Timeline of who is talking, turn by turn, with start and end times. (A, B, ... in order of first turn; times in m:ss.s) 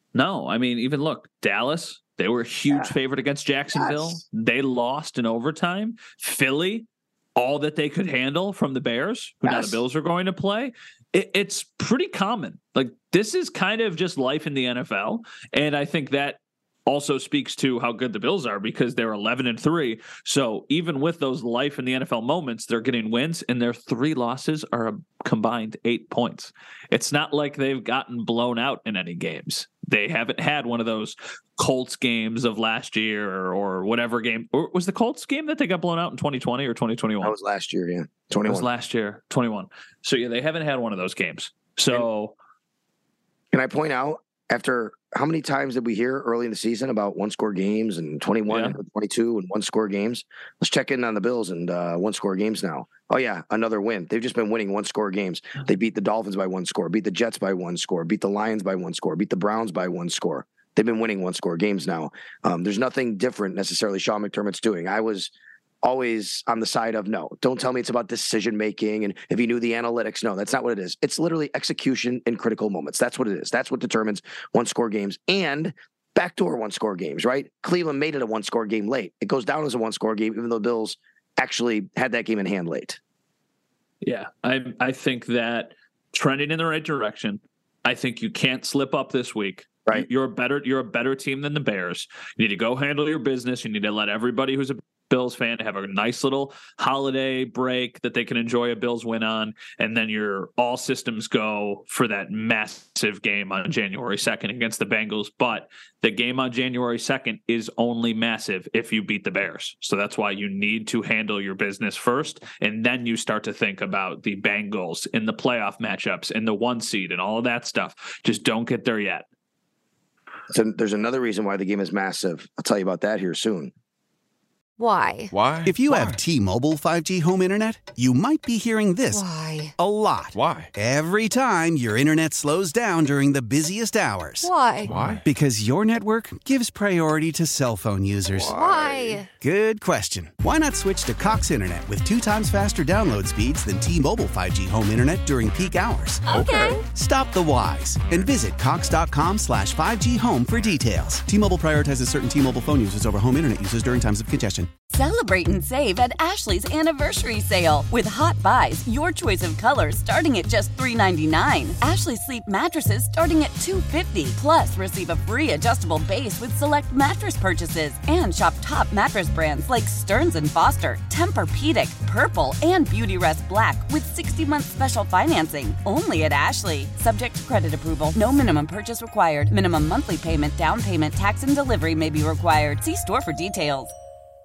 0:00.1-0:37.3 A
0:03.8-0:04.2 B
0:09.4-0:09.8 B
0:37.2-0:38.7 B
0:38.5-0:42.3 A
0:43.5-1:05.3 B
0:48.5-0:48.8 A
1:05.8-1:23.0 B
1:24.0-1:59.3 A
2:00.5-2:03.7 B
2:04.8-2:05.4 C
2:05.3-2:06.2 D
2:05.6-2:09.2 E
2:09.1-2:09.8 C
2:09.8-2:14.5 E
2:10.3-2:10.7 D
2:14.4-2:15.0 C
2:14.8-2:15.2 D
2:15.1-2:18.6 E
2:18.4-2:19.2 D
2:18.6-2:19.3 C
2:19.4-2:26.3 E
2:26.3-2:26.8 C
2:26.3-2:26.8 D
2:26.8-2:34.7 E
2:34.9-3:03.9 F